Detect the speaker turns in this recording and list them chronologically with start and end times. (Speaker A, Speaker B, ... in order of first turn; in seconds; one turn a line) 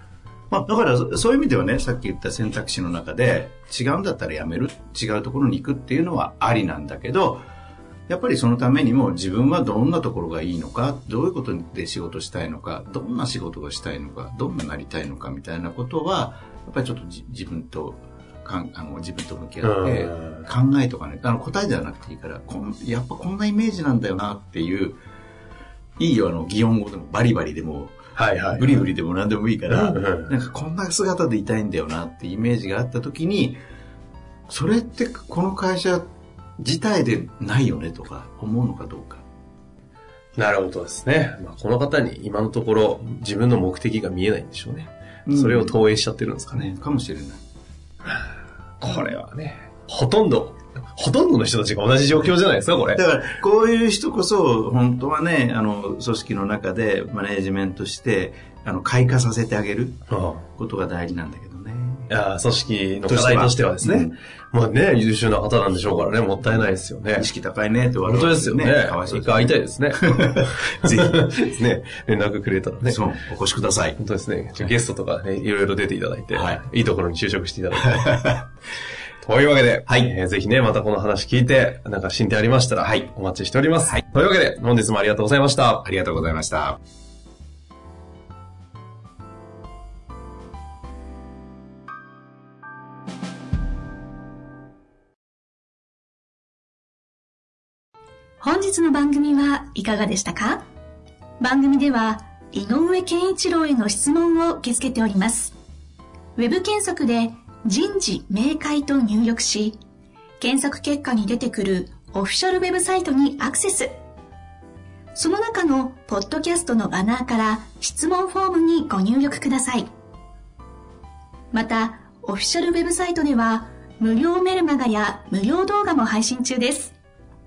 Speaker A: 0.5-7.4
Speaker A: 8.1-25.0
Speaker B: 19.6-20.4
Speaker A: 26.0-27.9
Speaker B: 28.1-28.8
Speaker A: 28.5-33.6
Speaker B: 29.7-30.3
Speaker A: 34.5-36.1
Speaker A: 36.6-39.2
Speaker B: 40.4-46.7
Speaker A: 45.2-45.8
Speaker A: 46.5-47.4
Speaker B: 48.8-53.0
Speaker A: 52.9-60.0
Speaker B: 60.1-60.4
Speaker A: 60.5-62.1
Speaker B: 62.1-67.2
Speaker A: 63.0-64.1
Speaker A: 66.4-71.4
Speaker B: 68.0-73.0
Speaker A: 72.8-74.0
Speaker B: 74.0-78.2
Speaker A: 76.3-76.6
Speaker A: 78.0-78.4
Speaker B: 79.2-85.9
Speaker A: 79.9-80.1
Speaker A: 85.8-86.8
Speaker C: 98.4-100.6
Speaker C: 101.4-105.5
Speaker C: 106.3-109.8
Speaker C: 110.4-114.0
Speaker C: 115.1-119.9
Speaker C: 121.5-126.9